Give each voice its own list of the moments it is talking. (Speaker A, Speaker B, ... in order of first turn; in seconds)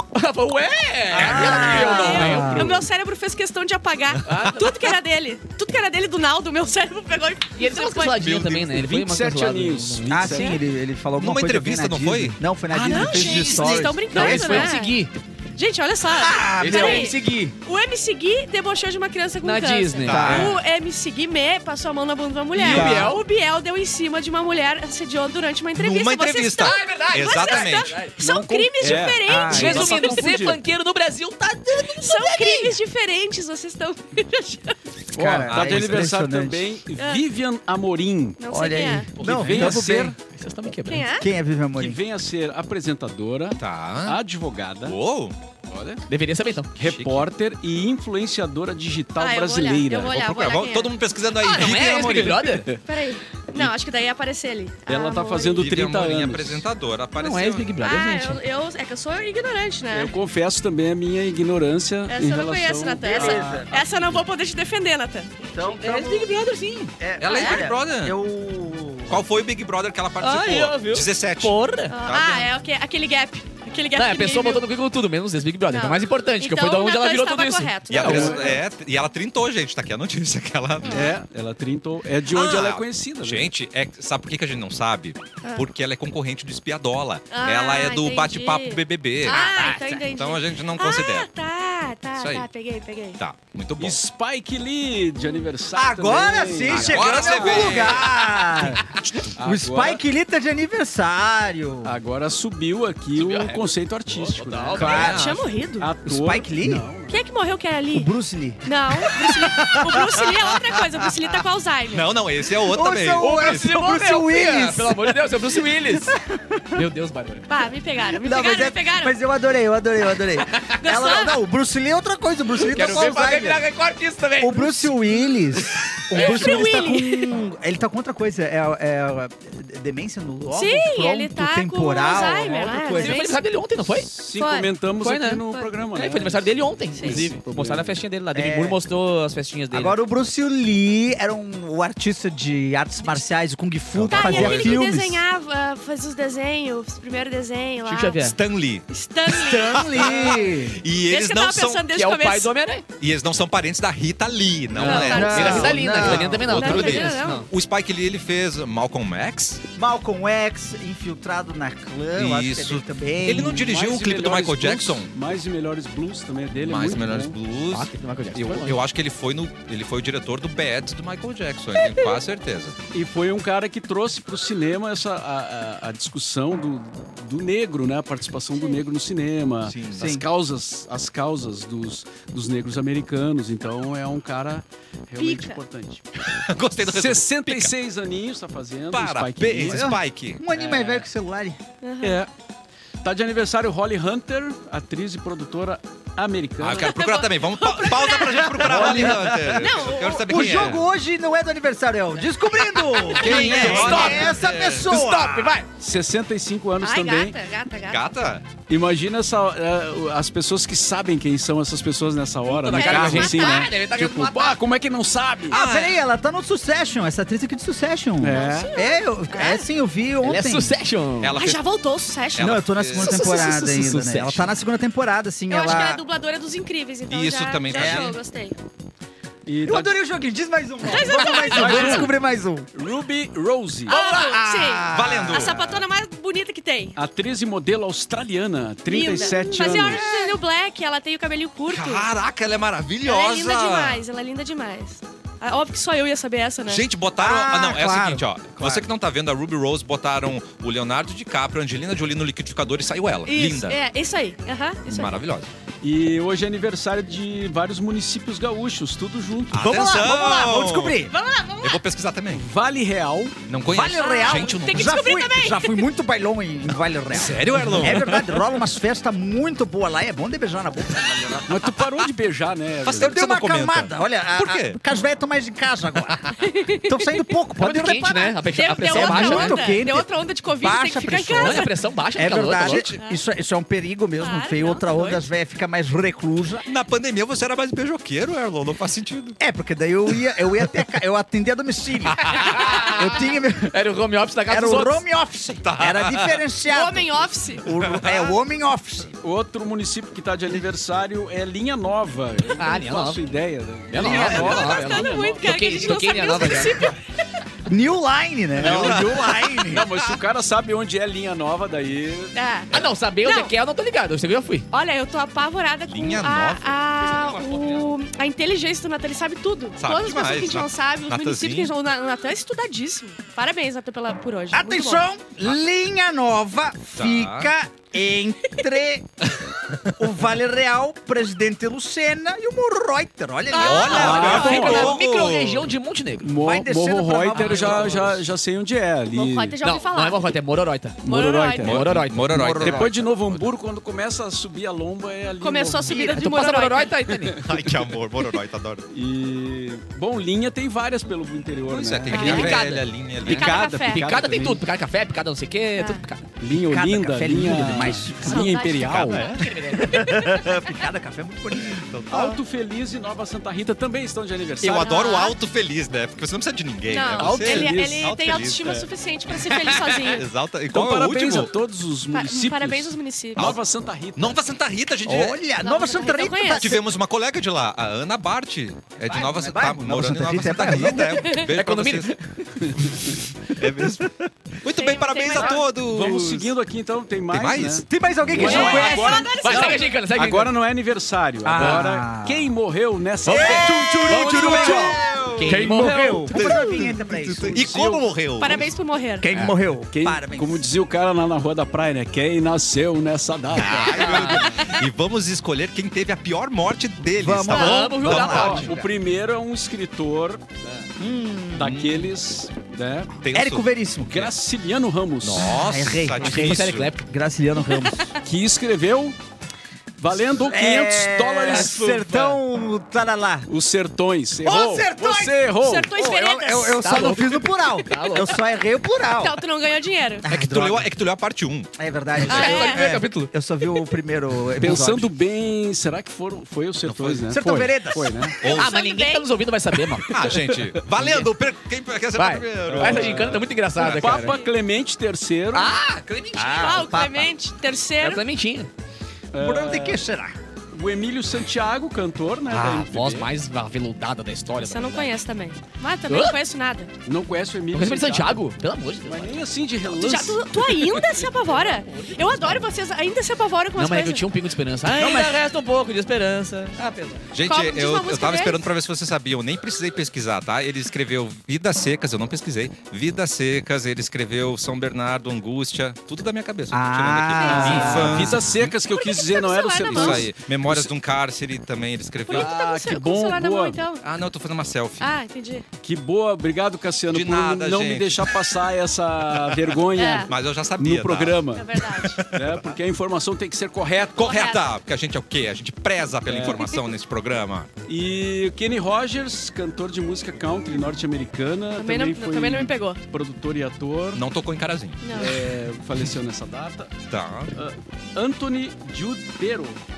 Speaker A: 0.1-2.9, 4.2-5.0, 7.6-10.5, 13.1-15.1, 16.6-17.5, 19.4-20.5, 26.6-28.1, 28.9-32.8, 39.2-41.1, 46.1-46.7, 51.3-52.7, 57.2-58.4, 65.6-66.9, 70.2-72.0, 74.0-78.5, 89.2-90.0, 97.4-98.0, 103.2-105.2, 113.2-116.2, 116.7-117.5, 120.4-120.9, 122.6-125.0, 133.0-134.1, 135.0-140.0, 147.8-148.4, 151.9-152.8, 154.7-157.5, 167.7-168.8, 202.7-205.7, 212.5-214.6, 220.2-221.4, 223.2-224.5, 277.6-279.6, 281.4-282.8, 292.3-295.0, 302.6-303.2, 303.9-306.9, 312.7-314.7, 317.0-317.9, 334.0-336.4, 337.3-338.1, 339.6-342.7, 346.0-347.4, 352.1-356.2, 359.0-360.2, 381.4-382.2, 388.4-390.6, 391.6-391.8, 393.3-396.4, 403.6-404.6, 407.5-408.9, 416.2-417.1, 426.8-428.4, 432.2-433.3, 438.5-440.3, 442.1-444.4, 445.5-446.8, 448.0-448.7, 452.5-455.1, 456.1-456.4, 457.7-459.4, 461.0-462.7, 463.8-467.3
Speaker B: 1.1-2.8, 10.1-14.8, 16.1-17.1, 20.1-20.6, 22.6-23.2, 29.2-30.4, 35.1-36.6, 38.5-40.1, 41.2-42.0, 63.0-63.8, 65.5-66.3, 67.0-69.3, 95.7-102.0, 104.8-105.2, 106.1-106.9, 107.9-111.1, 112.5-115.2, 115.9-116.8, 118.2-123.7, 124.4-133.3, 138.3-138.8, 139.7-145.3, 149.3-150.8, 155.1-156.4, 159.8-163.7, 179.9-180.2, 189.6-191.6, 198.6-205.6, 215.5-220.8, 222.4-226.0, 227.7-228.2, 229.6-232.7, 233.9-235.8, 239.7-240.4, 247.2-248.9, 259.5-261.1, 263.7-271.5, 273.0-286.6, 289.4-293.8, 294.5-299.1, 304.0-304.7, 307.7-309.9, 324.5-329.1, 330.0-335.0, 336.4-338.1, 342.3-342.9, 345.9-346.2, 352.2-352.5, 356.5-359.1, 359.7-362.4, 375.1-376.8, 379.0-381.4, 383.6-384.1, 387.8-389.9, 391.4-392.5, 393.2-397.6, 399.2-400.6, 407.1-408.3, 411.0-411.8, 413.3-414.3, 415.4-418.1, 420.4-423.5, 424.4-425.4, 425.9-429.4, 430.2-430.9, 431.8-435.1, 437.3-438.4, 446.3-447.3, 449.4-450.4, 464.9-465.4, 476.7-478.6
Speaker C: 1.1-2.1, 8.2-8.7, 11.2-13.7, 20.1-20.6, 25.8-28.0, 35.5-36.1, 43.6-44.2, 44.8-45.4, 46.8-47.3, 50.0-52.6, 55.6-57.7, 67.2-68.2, 69.1-72.5, 77.9-81.2, 82.3-89.4, 90.1-91.3, 92.2-92.5, 93.2-94.0, 96.7-99.3, 104.8-105.5, 111.9-113.7, 143.9-144.8, 148.2-148.9, 149.7-151.9, 153.0-159.6, 162.2-165.1, 166.6-172.8, 179.7-180.2, 186.2-187.7, 188.9-190.4, 196.6-200.8, 203.1-204.9, 207.9-208.5, 215.5-216.0, 221.2-221.6, 222.4-223.4, 227.1-228.2, 234.9-235.6, 241.7-244.0, 246.7-253.8, 254.9-255.5, 259.5-261.0, 261.6-262.4, 263.5-265.0, 267.1-268.4, 272.9-274.8, 282.6-283.0, 286.7-289.4, 292.2-292.5, 295.6-296.4, 297.8-298.3, 308.6-310.2, 315.9-316.8, 319.8-321.7, 326.9-327.5, 333.6-335.7, 337.5-338.1, 341.7-343.5, 347.4-348.9, 351.7-353.6, 358.9-359.5, 361.8-362.4, 364.6-368.7, 369.3-371.5, 373.4-373.6, 374.2-375.4, 376.6-382.2, 382.7-386.5, 387.3-388.9, 394.1-398.7, 403.5-408.8, 411.6-412.1, 413.2-414.1, 415.2-416.9, 430.3-431.7, 436.9-437.3, 438.4-438.7, 440.1-443.2, 467.3-478.7, 479.9-482.5, 484.0-485.1, 487.1-488.4, 489.3-492.8, 494.1-497.7, 504.1-505.2, 507.1-507.5
Speaker D: 1.4-8.2, 10.3-10.6, 12.8-15.0, 15.6-30.2, 32.0-34.8, 37.0-37.2, 38.4-39.1, 40.9-41.3, 49.2-51.0, 52.9-55.7, 57.8-60.1, 62.1-65.4, 67.3-67.7, 71.9-74.7, 75.7-78.6, 80.8-81.1, 87.3-93.2, 95.2-95.5, 104.8-105.9, 107.1-108.1, 108.6-112.1, 117.5-119.2, 120.8-121.4, 126.1-127.3, 130.5-133.4, 134.4-134.7, 136.9-137.2, 144.1-148.2, 148.9-150.4, 151.1-152.5, 154.8-155.8, 156.5-157.5, 171.8-172.2, 185.2-185.6, 191.8-192.2, 196.8-199.0, 199.6-200.7, 203.3-203.7, 206.8-208.1, 212.7-213.7, 218.2-219.7, 221.3-223.6, 225.5-228.6, 230.8-232.1, 233.9-237.0, 238.9-242.1, 243.0-246.8, 253.3-255.2, 261.1-261.8, 264.0-265.9, 276.4-277.4, 278.5-281.7, 284.2-285.3, 296.7-297.7, 304.1-307.0, 312.4-313.5, 314.7-325.1, 333.5-335.0, 339.1-340.3, 341.1-341.8, 345.4-347.1, 352.1-352.6, 353.3-354.1, 355.8-356.0, 358.2-359.3, 364.8-365.4, 366.9-370.3, 372.1-373.6, 375.6-376.8, 384.7-385.7, 388.4-389.9, 398.4-399.3, 404.5-404.9, 417.8-418.1, 425.6-426.9, 429.2-430.2, 432.3-432.9, 438.4-439.3, 444.2-444.5, 446.4-448.2, 454.6-456.9, 459.9-464.2, 467.4-468.7, 477.3-478.1, 478.8-480.3, 482.2-484.0, 485.0-485.6, 489.9-490.3, 491.5-492.2, 494.2-494.7, 501.8-503.0, 505.0-505.4
Speaker E: 8.6-10.6, 28.2-30.6, 35.1-38.4, 39.2-40.1, 41.8-45.0, 45.7-46.0, 46.8-50.1, 54.9-56.7, 59.9-64.2, 78.0-78.6, 80.9-83.5, 93.8-97.9, 99.4-100.0, 101.8-105.1, 105.8-107.2, 134.1-137.9, 163.5-167.4, 172.9-186.0, 186.8-189.9, 190.6-191.0, 192.0-192.3, 193.0-197.0, 198.7-199.2, 205.8-207.4, 208.7-215.6, 218.2-218.7, 229.5-229.9, 231.3-232.1, 232.7-233.9, 237.0-240.1, 255.8-259.7, 262.3-263.4, 267.6-268.1, 271.5-273.2, 299.2-306.2, 308.6-312.4, 333.9-334.9, 336.2-339.6, 341.0-341.9, 342.6-346.1, 347.2-347.7, 348.9-352.6, 353.2-354.6, 356.4-359.2, 362.1-365.1, 367.1-368.9, 370.7-374.4, 382.6-382.9, 385.3-394.7, 395.7-396.7, 397.5-398.1, 399.9-404.6, 408.0-410.4, 411.6-413.2, 414.1-415.6, 418.2-419.2, 420.0-422.4, 423.5-425.9, 434.6-438.4, 440.0-441.1, 442.7-445.8, 449.3-450.0, 450.7-453.3, 457.1-460.5, 477.4-480.9, 482.3-483.8, 485.8-491.8, 492.3-494.3, 496.3-496.7, 497.9-504.2, 505.1-506.9, 507.5-509.8